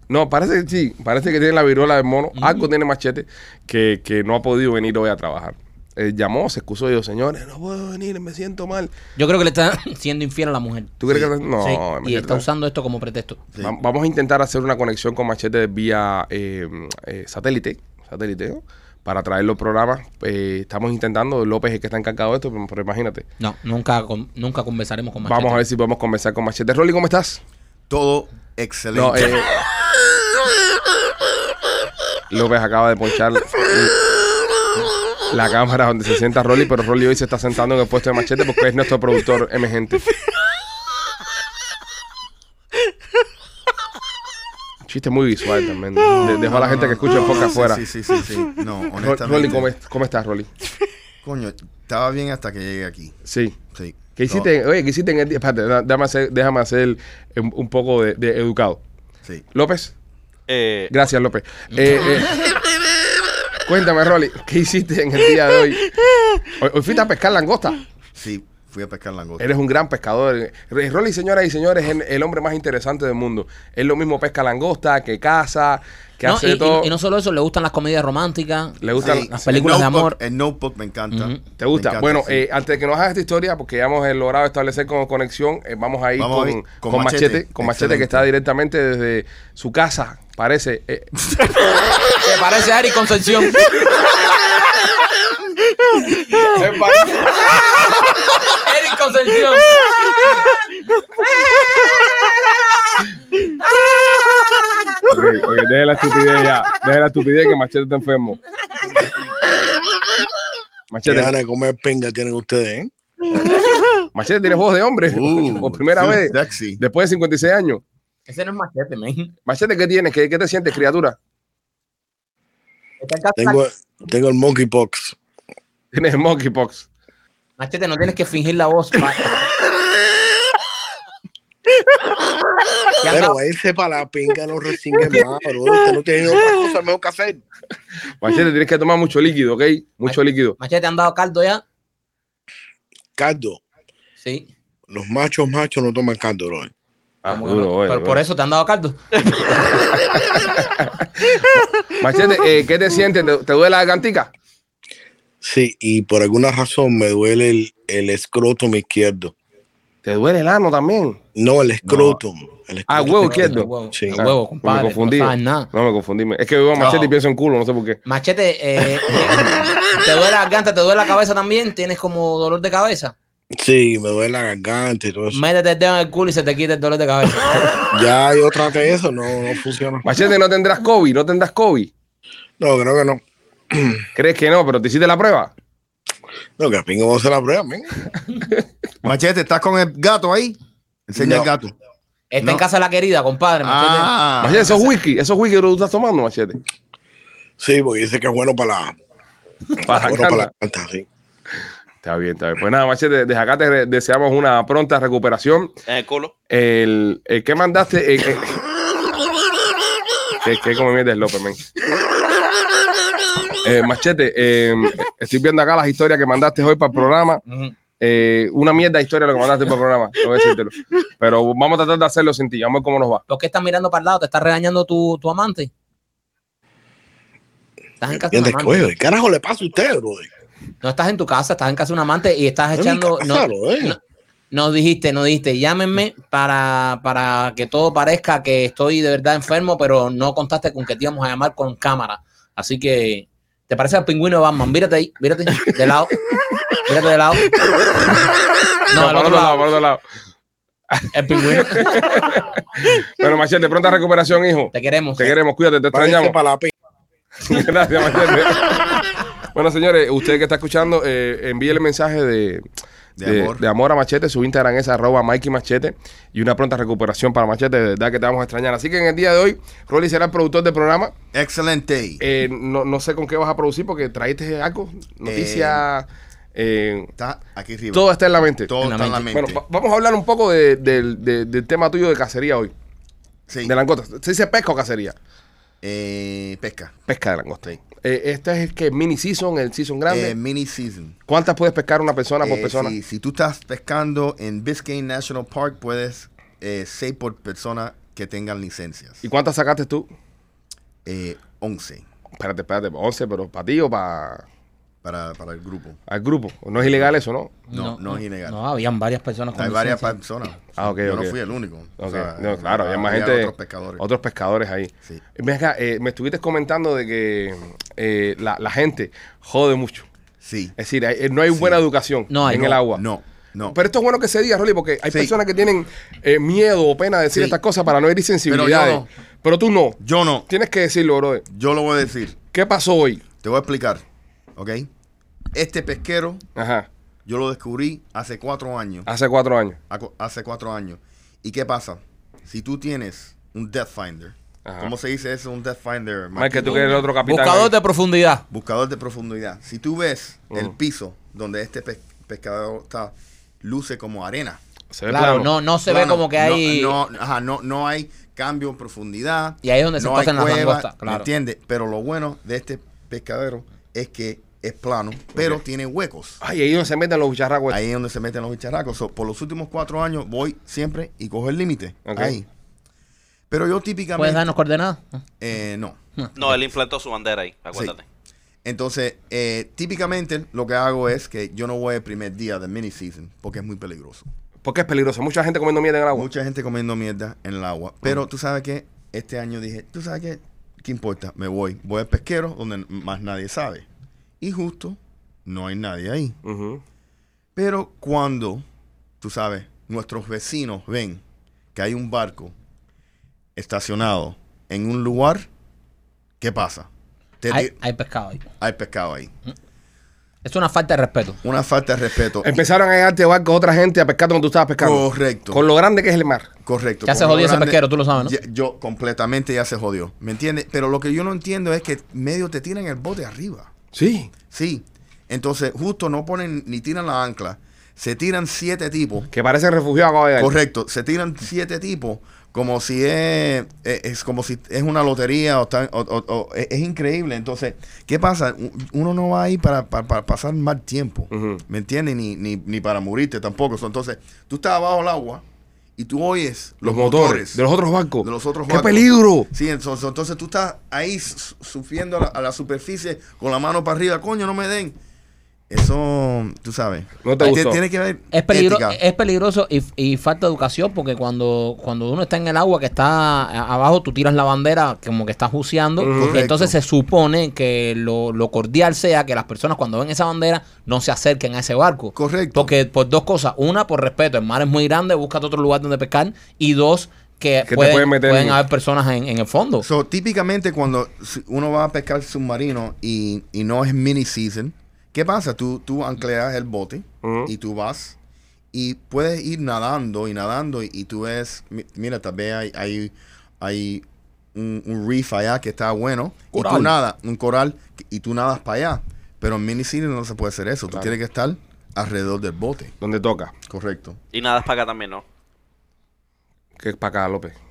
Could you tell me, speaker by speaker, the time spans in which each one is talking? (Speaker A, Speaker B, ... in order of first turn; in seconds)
Speaker A: 0.1-8.9, 11.0-12.4, 13.6-23.2, 25.2-27.4, 28.9-29.6, 32.3-34.0, 35.3-40.0, 44.8-47.8, 49.0-50.5, 53.3-53.5, 54.2-58.8, 59.5-59.9, 60.9-62.4, 63.7-65.8, 66.6-67.8, 69.4-76.9, 78.8-79.5, 81.6-91.1, 96.4-97.3, 105.1-108.4, 110.9-111.3, 114.1-117.8, 119.5-121.2, 125.9-126.8, 138.2-140.6, 147.2-148.2, 149.5-154.3, 160.0-161.2, 162.9-168.0, 180.0-181.9, 184.2-185.5, 194.4-196.6, 199.8-200.5, 202.0-205.7, 206.5-208.6, 210.4-211.6, 213.6-217.4, 218.0-223.2, 248.9-250.0, 250.9-256.4, 257.4-258.7, 259.5-262.6, 263.2-271.1, 272.2-277.1, 277.9-278.7, 279.3-282.7, 283.6-285.1, 287.1-290.3, 291.3-292.9, 299.2-300.1, 302.4-304.4, 306.1-307.5, 310.8-311.3, 312.0-320.1, 320.8-323.0, 323.7-330.0, 330.5-331.4, 332.5-333.2, 336.6-336.9, 339.1-339.8, 344.6-344.9, 346.3-347.7, 354.9-355.5, 366.4-367.8, 372.1-372.4, 384.6-386.3, 396.4-396.8, 412.4-416.5, 423.9-424.3, 429.3-430.5, 441.3-441.6, 446.8-449.5, 457.2-457.8, 466.0-466.4, 477.7-478.6, 487.2-487.5, 496.6-496.9, 503.0-503.5, 506.8-507.6
Speaker B: 2.4-2.6, 9.2-11.0, 11.6-13.4, 23.4-25.6, 61.7-62.0, 76.2-80.2, 81.1-81.4, 92.2-93.8, 98.4-99.8, 118.3-119.3, 123.0-123.6, 127.6-129.3, 133.0-133.4, 140.0-141.6, 144.2-144.5, 147.3-149.0, 163.2-165.7, 166.8-167.1, 168.1-173.1, 175.3-177.8, 192.3-194.1, 217.5-217.7, 223.3-225.7, 228.0-228.9, 230.8-234.0, 234.5-246.2, 246.8-247.5, 248.9-249.7, 251.1-252.0, 254.7-255.3, 278.8-279.3, 307.7-310.2, 322.3-322.8, 346.6-348.4, 355.1-357.0, 359.6-361.3, 374.2-375.2, 407.5-408.4, 410.4-411.4, 417.1-418.3, 458.3-479.9
Speaker C: 27.9-29.4, 46.0-49.7, 51.2-53.2, 53.7-54.5, 68.1-69.5, 79.0-82.4, 86.2-88.3, 115.0-116.8, 166.8-167.1, 189.0-191.8, 193.6-194.8, 263.2-263.6, 271.3-272.2, 275.2-275.8, 277.2-278.1, 278.6-279.6, 283.5-283.7, 285.8-286.9, 290.1-291.2, 292.4-299.2, 301.1-302.0, 305.0-306.0, 306.8-307.2, 307.7-308.6, 309.5-314.0, 320.4-320.8, 321.5-321.8, 322.8-323.8, 325.1-325.3, 327.3-327.6, 328.5-329.1, 330.0-330.5, 331.5-332.4, 333.4-334.0, 334.6-334.9, 335.5-336.4, 337.2-339.1, 339.9-346.9, 348.5-354.6, 355.9-366.4, 367.7-372.4, 373.5-374.5, 375.4-376.0, 378.6-384.3, 386.1-393.9, 394.4-396.4, 397.6-398.6, 399.2-401.2, 401.8-402.6, 403.6-405.5, 406.4-406.9, 407.4-407.7, 408.6-409.3, 411.4-412.6, 414.8-415.6, 416.6-423.7, 424.5-429.3, 430.4-445.4, 446.0-447.6, 448.2-455.0, 455.7-459.0, 466.1-466.7, 472.1-472.7, 479.8-488.1, 488.7-502.9, 503.7-504.2
Speaker D: 60.5-60.9, 205.9-206.3, 376.4-378.0, 504.3-505.2
Speaker E: 111.0-113.4, 123.4-125.2, 133.0-137.4, 143.2-143.6, 144.9-146.7, 155.4-159.3, 161.3-164.2, 173.6-175.4, 177.8-180.1, 182.6-184.0, 186.6-187.9, 191.2-191.5, 197.6-198.9, 199.8-201.1, 228.1-230.3, 232.8-234.0, 255.9-256.7